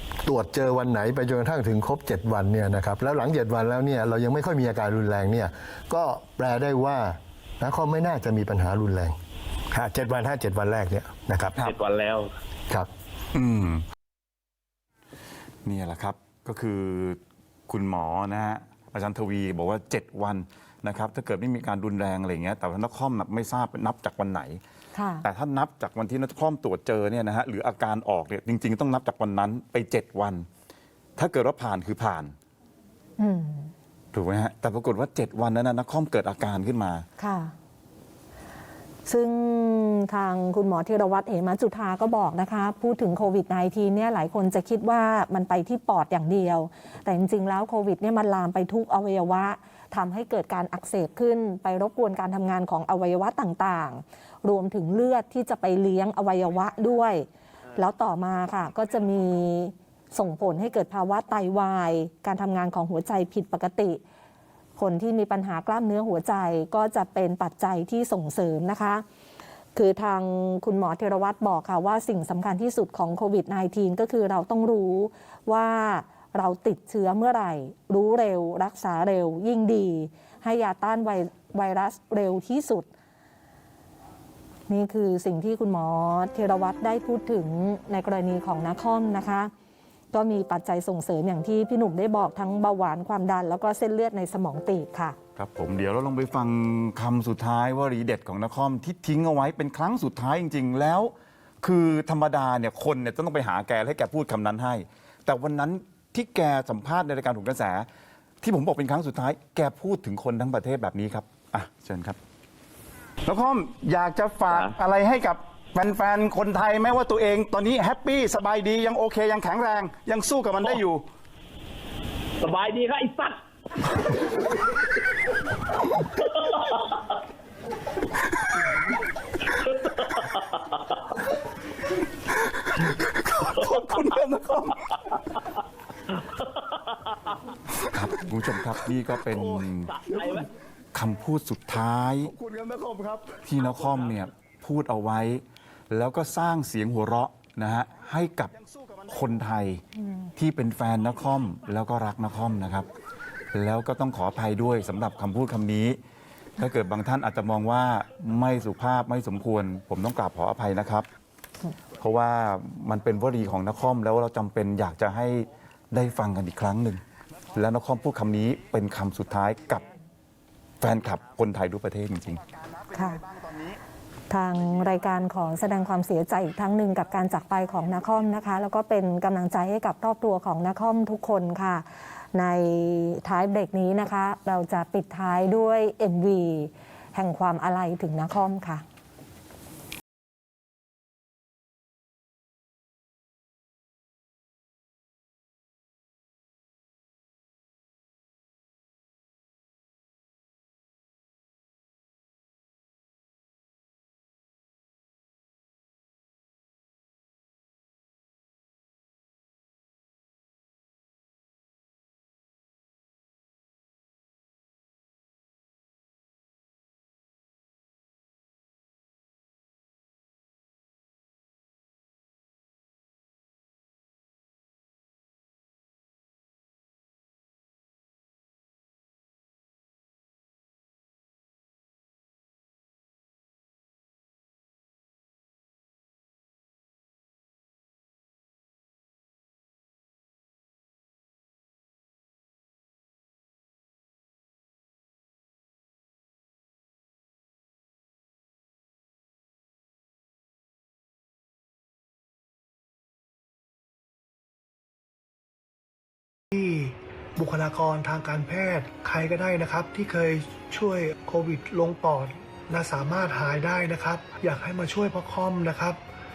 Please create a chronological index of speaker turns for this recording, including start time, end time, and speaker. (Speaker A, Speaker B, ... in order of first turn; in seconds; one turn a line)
Speaker A: 0.2-9.2
Speaker A: 9.7-11.7
Speaker B: 11.6-12.3
Speaker C: 13.3-13.8
Speaker C: 15.6-24.6
Speaker D: 24.9-25.2
Speaker C: 25.2-30.5
Speaker C: 31.2-32.3
Speaker D: 33.2-33.7
Speaker C: 34.1-37.0
Speaker D: 37.2-37.5
Speaker D: 39.0-64.0
Speaker D: 64.8-69.0
Speaker D: 69.7-82.9
Speaker D: 84.7-89.5
Speaker D: 90.1-95.2
Speaker C: 95.4-107.9
Speaker C: 108.4-112.2
Speaker C: 113.2-121.0
Speaker B: 114.5-114.7
Speaker B: 122.4-123.4
Speaker B: 126.2-126.8
Speaker B: 129.6-130.8
Speaker C: 132.3-134.9
Speaker B: 136.2-136.4
Speaker C: 137.7-139.9
Speaker B: 139.7-140.5
Speaker C: 140.9-142.3
Speaker A: 142.4-143.4
Speaker C: 143.4-149.8
Speaker C: 150.4-152.9
Speaker C: 153.5-156.0
Speaker C: 156.6-161.1
Speaker C: 162.0-167.0
Speaker C: 167.5-169.8
Speaker C: 170.8-173.8
Speaker D: 172.9-173.2
Speaker D: 174.3-188.8
Speaker E: 256.5-266.0